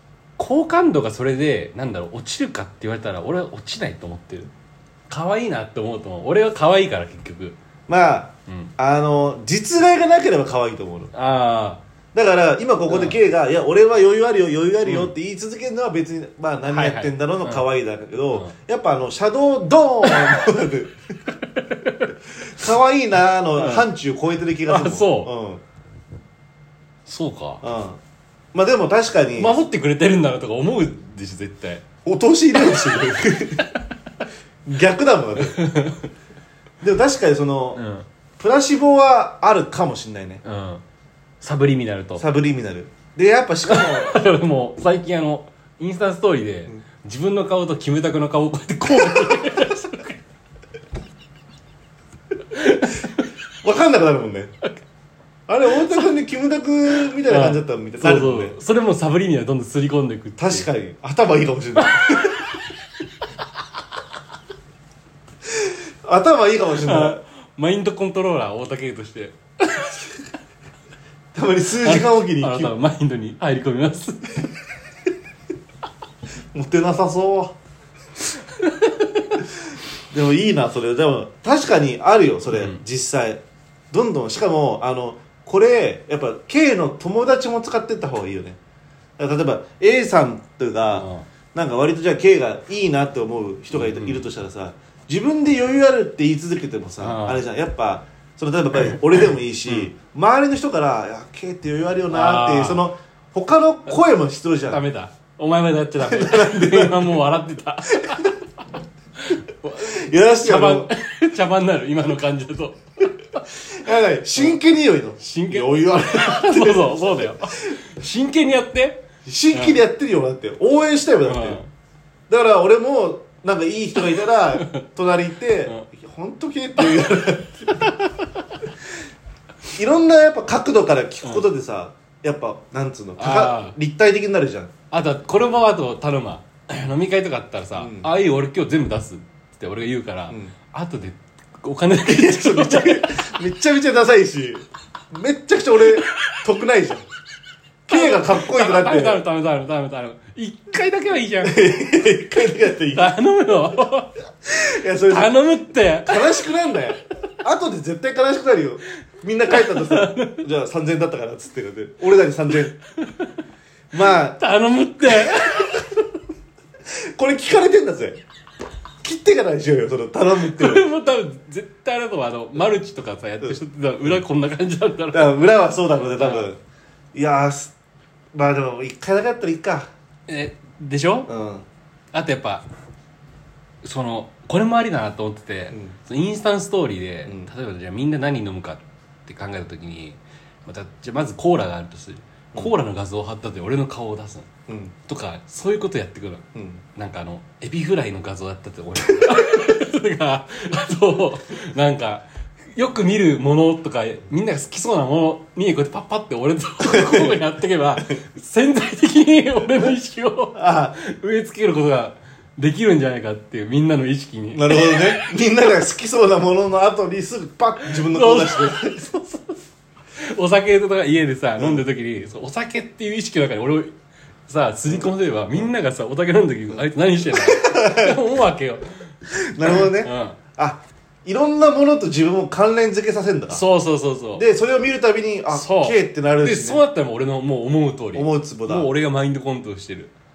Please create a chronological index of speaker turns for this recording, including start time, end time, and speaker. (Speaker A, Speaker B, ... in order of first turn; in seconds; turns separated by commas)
Speaker A: 0.4-4.5, Speaker A: 5.1-7.6, Speaker B: 7.9-11.1, Speaker A: 8.5-8.7, Speaker A: 11.1-11.8, Speaker B: 12.1-21.0, Speaker A: 12.9-13.2, Speaker A: 14.8-15.1, Speaker A: 16.7-17.6, Speaker A: 20.0-20.4, Speaker A: 21.4-22.1, Speaker B: 22.4-25.6, Speaker A: 23.6-23.9, Speaker A: 24.7-25.3, Speaker A: 27.1-27.6, Speaker B: 27.6-28.0, Speaker B: 28.5-29.6, Speaker A: 29.4-31.9, Speaker B: 32.0-33.7, Speaker A: 32.6-33.6, Speaker B: 34.7-35.6, Speaker A: 35.4-36.1, Speaker B: 36.8-37.8, Speaker A: 37.8-38.1, Speaker B: 38.4-40.4, Speaker A: 40.4-40.8, Speaker A: 41.4-42.2, Speaker B: 42.2-44.3, Speaker A: 43.7-50.2, Speaker B: 49.2-49.5, Speaker A: 52.5-53.3, Speaker B: 53.6-54.5, Speaker B: 55.5-58.6, Speaker A: 57.2-60.7, Speaker B: 60.4-62.6, Speaker A: 61.9-62.4, Speaker B: 65.5-67.2, Speaker A: 66.8-70.1, Speaker B: 71.3-72.7, Speaker A: 71.8-74.5, Speaker B: 76.5-77.6, Speaker A: 78.6-79.4, Speaker B: 80.1-88.6, Speaker A: 82.5-82.8, Speaker B: 89.2-104.8, Speaker A: 90.9-91.3, Speaker A: 93.7-94.2, Speaker A: 97.0-97.4, Speaker A: 102.1-102.8, Speaker A: 104.7-108.4, Speaker B: 106.0-107.2, Speaker B: 108.0-108.3, Speaker A: 109.2-113.0, Speaker B: 109.8-110.9, Speaker B: 113.6-117.8, Speaker A: 115.2-119.8, Speaker B: 119.2-121.6, Speaker A: 121.3-121.7, Speaker B: 122.3-128.1, Speaker A: 124.5-124.8, Speaker B: 129.7-134.7, Speaker A: 133.2-133.8, Speaker A: 134.9-143.2, Speaker B: 137.8-138.1, Speaker B: 140.3-140.5, Speaker B: 142.1-147.1, Speaker B: 147.9-149.2, Speaker A: 147.9-151.7, Speaker B: 151.4-153.1, Speaker A: 152.9-154.2, Speaker B: 154.5-155.3, Speaker A: 155.1-156.4, Speaker B: 156.1-162.8, Speaker A: 159.5-160.5, Speaker A: 163.0-163.3, Speaker B: 163.9-164.4, Speaker A: 164.0-165.9, Speaker B: 165.1-165.8, Speaker B: 166.9-168.2, Speaker B: 169.0-170.9, Speaker A: 170.4-175.4, Speaker B: 175.1-176.6, Speaker A: 176.2-176.4, Speaker B: 177.1-177.7, Speaker B: 178.3-179.9, Speaker A: 180.3-181.3, Speaker B: 181.3-181.7, Speaker A: 182.1-182.6, Speaker A: 183.8-194.5, Speaker B: 187.2-187.5, Speaker B: 194.7-194.9, Speaker A: 195.1-202.2, Speaker B: 196.6-196.8, Speaker B: 199.2-199.6, Speaker A: 202.8-215.3, Speaker B: 206.8-207.4, Speaker B: 210.6-211.0, Speaker B: 214.5-219.2, Speaker A: 217.8-219.4, Speaker A: 220.2-223.9, Speaker B: 221.6-221.8, Speaker A: 224.5-230.4, Speaker B: 227.3-228.2, Speaker B: 229.3-233.6, Speaker A: 233.5-234.4, Speaker B: 234.3-236.8, Speaker A: 235.5-240.1, Speaker B: 238.1-238.9